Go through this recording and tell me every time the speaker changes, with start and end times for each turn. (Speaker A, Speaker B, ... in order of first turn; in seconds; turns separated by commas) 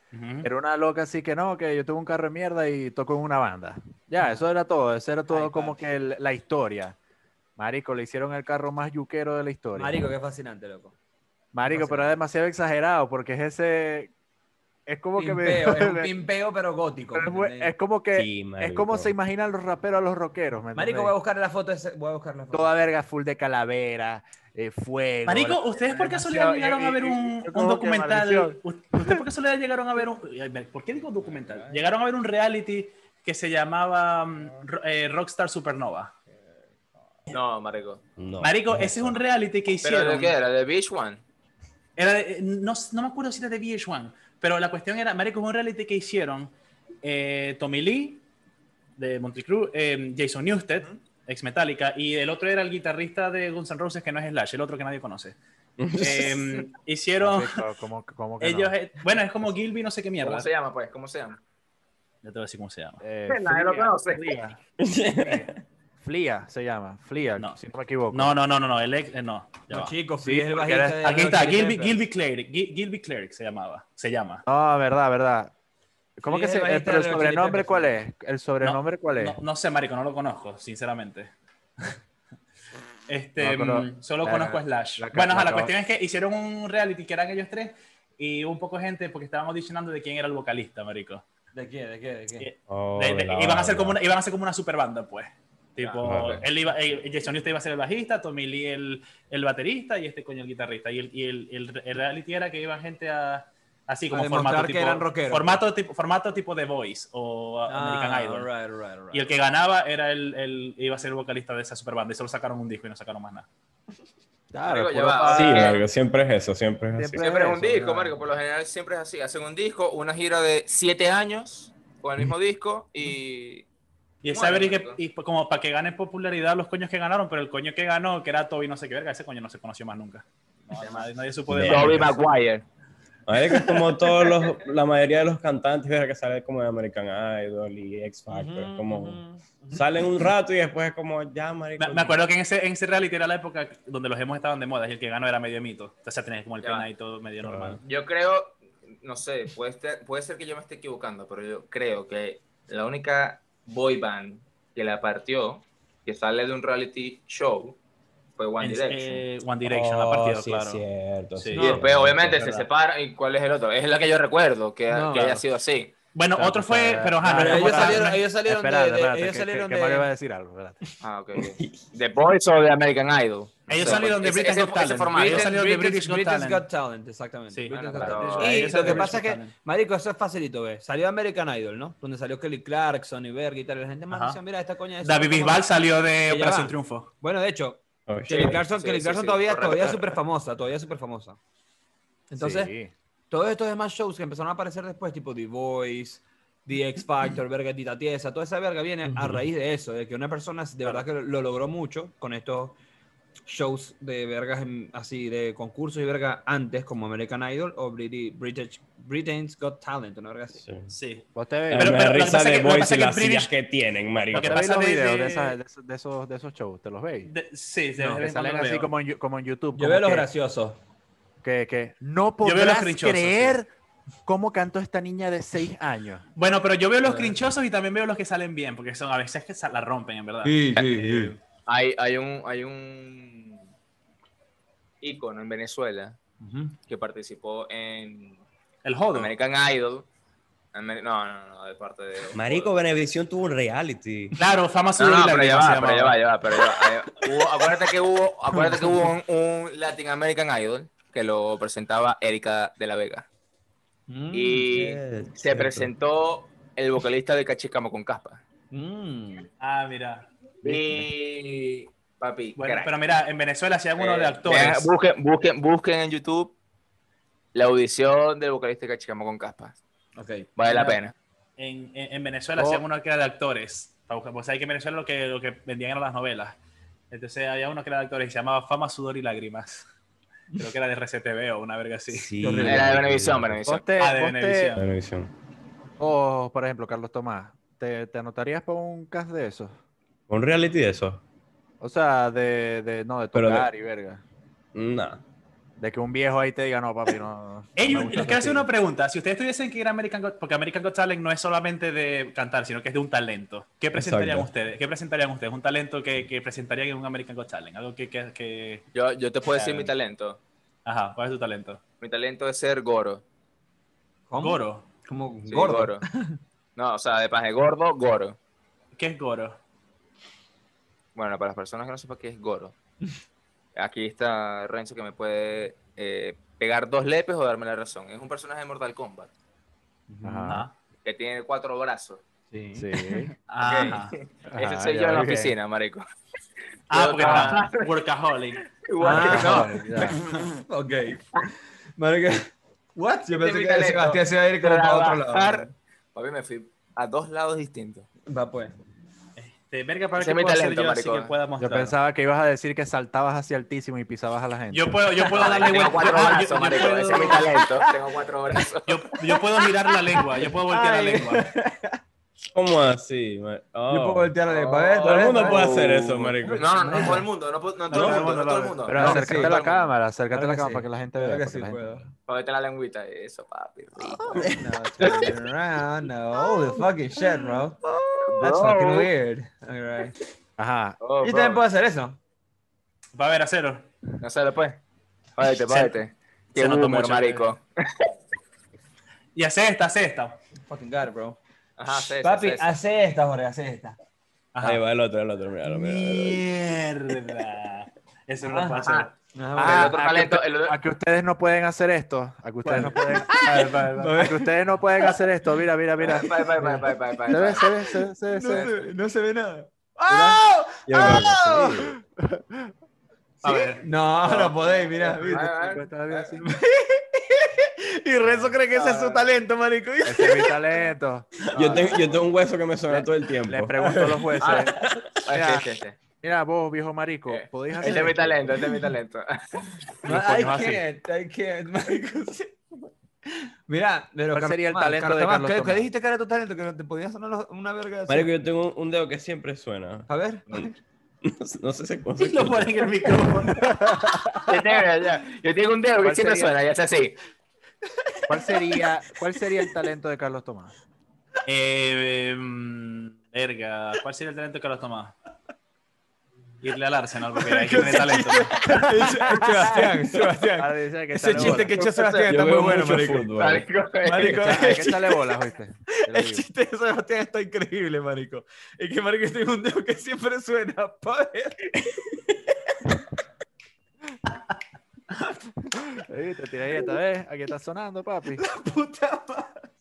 Speaker A: 0.1-0.5, Speaker B: 0.4-7.0, Speaker C: 5.3-5.8, Speaker B: 7.6-10.1, Speaker C: 9.8-10.9, Speaker B: 11.5-14.1, Speaker C: 11.7-12.2, Speaker B: 14.9-16.1, Speaker C: 15.2-17.7, Speaker B: 17.1-21.1, Speaker D: 18.1-19.1, Speaker C: 20.8-22.7, Speaker B: 22.5-29.2, Speaker A: 25.3-36.1, Speaker D: 31.2-31.8, Speaker E: 37.3-38.0, Speaker D: 38.2-39.2, Speaker A: 38.4-40.4, Speaker E: 39.8-41.2, Speaker A: 42.0-48.2, Speaker A: 49.0-55.4, Speaker D: 55.8-56.3, Speaker A: 56.0-57.6, Speaker B: 57.2-58.7, Speaker A: 58.4-60.5, Speaker E: 60.2-61.4, Speaker A: 62.2-63.0, Speaker B: 63.0-64.6, Speaker E: 63.3-64.4, Speaker D: 64.8-65.6, Speaker B: 65.2-65.5, Speaker B: 66.0-68.3, Speaker A: 68.1-69.9, Speaker C: 69.7-72.0, Speaker B: 70.2-71.0, Speaker A: 71.0-74.4, Speaker B: 74.5-75.5, Speaker B: 76.2-79.4, Speaker C: 76.3-78.0, Speaker A: 78.6-81.3, Speaker A: 83.1-91.2, Speaker B: 83.4-85.7, Speaker C: 91.5-92.5, Speaker A: 92.4-108.5, Speaker D: 92.7-94.0, Speaker E: 95.8-96.4, Speaker D: 96.0-96.4, Speaker C: 104.1-105.6, Speaker C: 107.7-109.3, Speaker A: 109.1-113.5, Speaker B: 114.5-115.8, Speaker E: 114.7-115.8, Speaker D: 115.2-117.2, Speaker B: 117.0-118.2, Speaker E: 117.2-123.7, Speaker A: 124.2-132.2, Speaker E: 124.3-125.0, Speaker E: 130.8-131.1, Speaker D: 131.5-132.1, Speaker E: 131.6-132.7, Speaker D: 133.3-142.2, Speaker C: 138.3-139.8, Speaker A: 141.8-147.8, Speaker E: 146.6-146.9, Speaker D: 147.4-147.8, Speaker E: 147.8-157.8, Speaker E: 158.4-159.2, Speaker A: 158.6-160.8, Speaker D: 159.7-162.4, Speaker A: 161.4-161.7, Speaker C: 161.5-161.8, Speaker E: 161.6-165.9, Speaker A: 162.4-162.7, Speaker C: 164.9-165.4, Speaker A: 166.1-168.2, Speaker B: 166.4-170.8, Speaker C: 167.3-170.1, Speaker E: 171.0-175.5, Speaker B: 173.7-174.0, Speaker A: 173.7-176.7, Speaker C: 175.1-185.7, Speaker A: 177.5-179.5, Speaker E: 177.7-179.1, Speaker A: 184.1-184.4, Speaker A: 185.0-187.1, Speaker C: 186.2-191.4, Speaker D: 188.1-188.6, Speaker E: 188.3-190.2, Speaker C: 192.3-192.7, Speaker B: 192.3-192.9, Speaker C: 193.3-202.8, Speaker D: 199.1-199.4, Speaker C: 203.5-210.6, Speaker D: 210.6-210.9, Speaker A: 210.9-213.5, Speaker B: 211.3-212.0, Speaker D: 211.7-214.7, Speaker A: 214.3-215.6, Speaker B: 214.3-217.3, Speaker A: 217.3-218.9, Speaker B: 218.0-220.3, Speaker C: 219.8-220.8, Speaker B: 221.4-223.7, Speaker A: 222.4-223.6, Speaker B: 224.3-226.2, Speaker A: 226.4-231.3, Speaker C: 227.0-227.4, Speaker C: 230.4-231.4, Speaker E: 231.7-233.6, Speaker E: 235.0-236.2, Speaker C: 236.4-236.8, Speaker E: 236.8-238.4, Speaker A: 238.8-239.3, Speaker E: 239.1-240.1, Speaker E: 240.7-242.7, Speaker D: 242.3-244.4, Speaker A: 244.4-246.2, Speaker E: 245.0-253.3, Speaker C: 254.1-254.8, Speaker E: 254.3-258.4, Speaker D: 254.7-255.9, Speaker C: 258.7-259.5, Speaker A: 259.6-260.3, Speaker E: 260.6-262.9, Speaker D: 260.6-261.1, Speaker A: 262.6-264.9, Speaker E: 264.0-266.6, Speaker E: 267.5-269.8, Speaker C: 270.2-270.5, Speaker E: 270.6-271.1, Speaker A: 270.6-271.0, Speaker A: 271.6-276.6, Speaker B: 272.6-272.8, Speaker A: 277.1-279.9, Speaker A: 280.6-282.3, Speaker D: 282.1-283.6, Speaker C: 282.4-283.0, Speaker E: 282.6-283.8, Speaker B: 283.6-284.8, Speaker A: 284.0-284.8, Speaker D: 284.8-285.3, Speaker B: 286.0-289.8, Speaker D: 290.3-291.2, Speaker B: 291.8-294.2, Speaker D: 293.3-293.7, Speaker D: 294.7-295.2, Speaker B: 295.8-298.7, Speaker A: 297.8-308.9, Speaker D: 303.9-304.5, Speaker E: 308.9-310.4, Speaker A: 309.5-309.9, Speaker A: 310.9-311.8, Speaker E: 312.0-313.2, Speaker C: 314.3-316.4, Speaker A: 314.4-314.9, Speaker E: 315.5-316.0, Speaker E: 316.8-318.4, Speaker A: 319.0-319.6, Speaker E: 321.1-322.8, Speaker E: 323.8-329.3, Speaker C: 330.1-330.6, Speaker B: 330.2-330.7, Speaker A: 330.4-330.7, Speaker E: 331.0-332.2, Speaker C: 332.5-333.3, Speaker B: 332.8-333.3, Speaker A: 333.5-334.1, Speaker E: 333.6-336.0, Speaker B: 334.5-335.6, Speaker A: 336.9-338.6, Speaker E: 336.9-337.9, Speaker E: 338.6-340.4, Speaker C: 339.0-341.3, Speaker B: 339.1-340.2, Speaker C: 342.0-345.7, Speaker E: 343.3-348.1, Speaker C: 348.3-348.7, Speaker A: 349.4-352.0, Speaker E: 350.2-351.3, Speaker B: 351.6-355.0, Speaker A: 354.7-357.5, Speaker E: 355.3-359.0, Speaker A: 358.9-361.5, Speaker C: 359.9-362.0, Speaker D: 362.5-364.4, Speaker C: 363.9-365.9, Speaker E: 364.5-369.9, Speaker D: 365.0-366.7, Speaker C: 366.7-367.2, Speaker A: 367.9-369.1, Speaker B: 368.9-371.9, Speaker C: 368.9-369.6, Speaker C: 370.3-372.1, Speaker E: 372.3-375.3, Speaker C: 374.3-380.1, Speaker E: 378.3-379.1, Speaker B: 380.6-381.0, Speaker E: 381.0-381.6, Speaker C: 381.2-382.2, Speaker A: 383.1-383.9, Speaker E: 384.2-384.8, Speaker E: 385.4-388.1, Speaker A: 385.6-386.0, Speaker A: 386.6-387.5, Speaker A: 389.4-390.4, Speaker C: 390.7-394.0, Speaker E: 391.8-392.7, Speaker A: 394.5-394.8, Speaker D: 394.6-396.4, Speaker A: 395.6-399.1, Speaker E: 398.4-400.8, Speaker C: 399.4-400.0, Speaker B: 399.6-408.8, Speaker A: 402.6-404.3, Speaker C: 402.7-404.5, Speaker E: 406.0-407.7, Speaker C: 406.5-406.8, Speaker C: 408.3-411.9, Speaker B: 410.1-410.4, Speaker D: 410.9-411.9, Speaker B: 411.0-412.7, Speaker A: 413.4-413.8, Speaker C: 413.8-415.7, Speaker E: 415.0-416.3, Speaker B: 415.6-416.5, Speaker C: 416.4-420.6, Speaker B: 418.2-418.6, Speaker E: 418.7-419.3, Speaker B: 420.1-421.5, Speaker D: 421.5-423.8, Speaker E: 421.6-422.3, Speaker B: 422.9-425.7, Speaker C: 423.8-424.6, Speaker E: 424.4-426.0, Speaker B: 426.2-428.6, Speaker E: 427.3-429.6, Speaker C: 430.0-432.6, Speaker B: 430.1-430.8, Speaker C: 433.3-438.3, Speaker B: 434.3-435.9, Speaker D: 438.1-440.7, Speaker C: 440.1-440.7, Speaker D: 441.2-442.9, Speaker A: 442.2-443.9, Speaker E: 444.5-447.2, Speaker B: 446.0-446.5, Speaker C: 448.1-448.8, Speaker B: 448.3-450.7, Speaker A: 451.5-455.1, Speaker A: 456.6-458.5, Speaker C: 457.4-463.3, Speaker B: 458.7-459.9, Speaker B: 460.6-461.8, Speaker E: 461.4-462.3, Speaker D: 462.3-463.7, Speaker E: 463.3-464.5, Speaker C: 464.0-465.2, Speaker B: 464.2-466.5, Speaker C: 465.9-471.7, Speaker B: 476.0-478.4, Speaker C: 478.4-479.5